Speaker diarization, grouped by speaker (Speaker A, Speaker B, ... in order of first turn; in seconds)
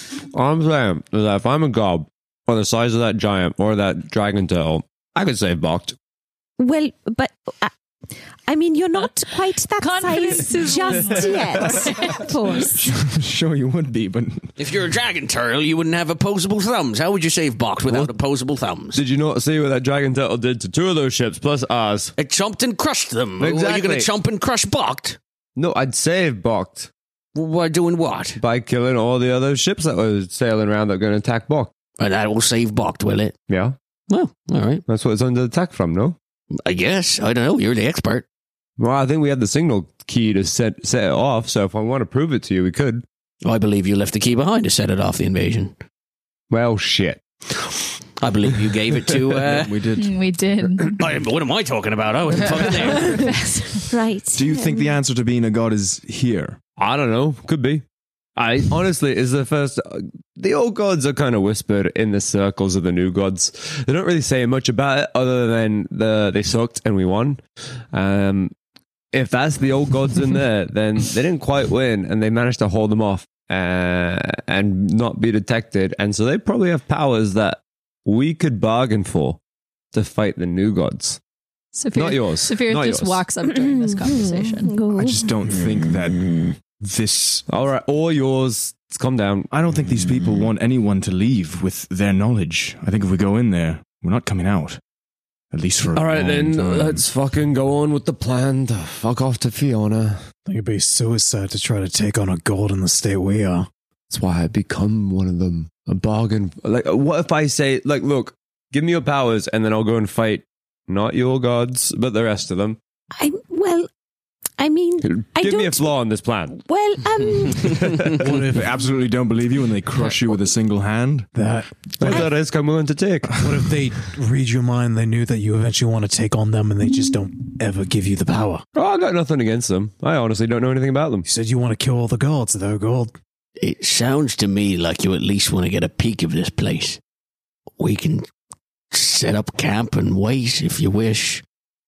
Speaker A: 0.3-6.0, 17.9-18.1, 18.9-22.1, 23.4-24.1, 25.6-26.9, 28.4-31.7, 33.5-33.8, 34.9-36.2, 38.8-43.0, 46.5-47.2, 56.8-57.8, 58.4-68.5, 69.1-79.4, 79.9-81.2, 82.0-83.2, 87.5-89.5, 95.9-100.2, 104.1-112.8, 115.0-116.6, 117.6-118.2, 122.0-123.4, 128.8-131.3
Speaker B: 6.6-7.7, 8.5-12.8, 53.9-55.0, 83.5-85.3, 113.2-113.9, 114.6-115.9, 116.5-117.9
Speaker C: 9.8-12.2, 49.9-51.0, 53.1-53.8, 81.7-84.8
Speaker D: 12.8-14.5, 49.4-50.2, 54.3-56.6, 84.9-87.5, 89.5-94.8, 95.5-97.0, 118.2-121.3
Speaker E: 14.6-19.0, 22.2-25.2, 27.4-28.4, 32.0-33.4, 34.1-34.8, 36.6-38.2, 43.4-45.8, 48.2-49.8, 50.9-53.2, 133.6-137.0, 137.8-138.3, 138.9-141.4
Speaker F: 100.5-103.7, 118.2-118.6, 121.3-122.2, 123.4-128.6, 131.2-133.1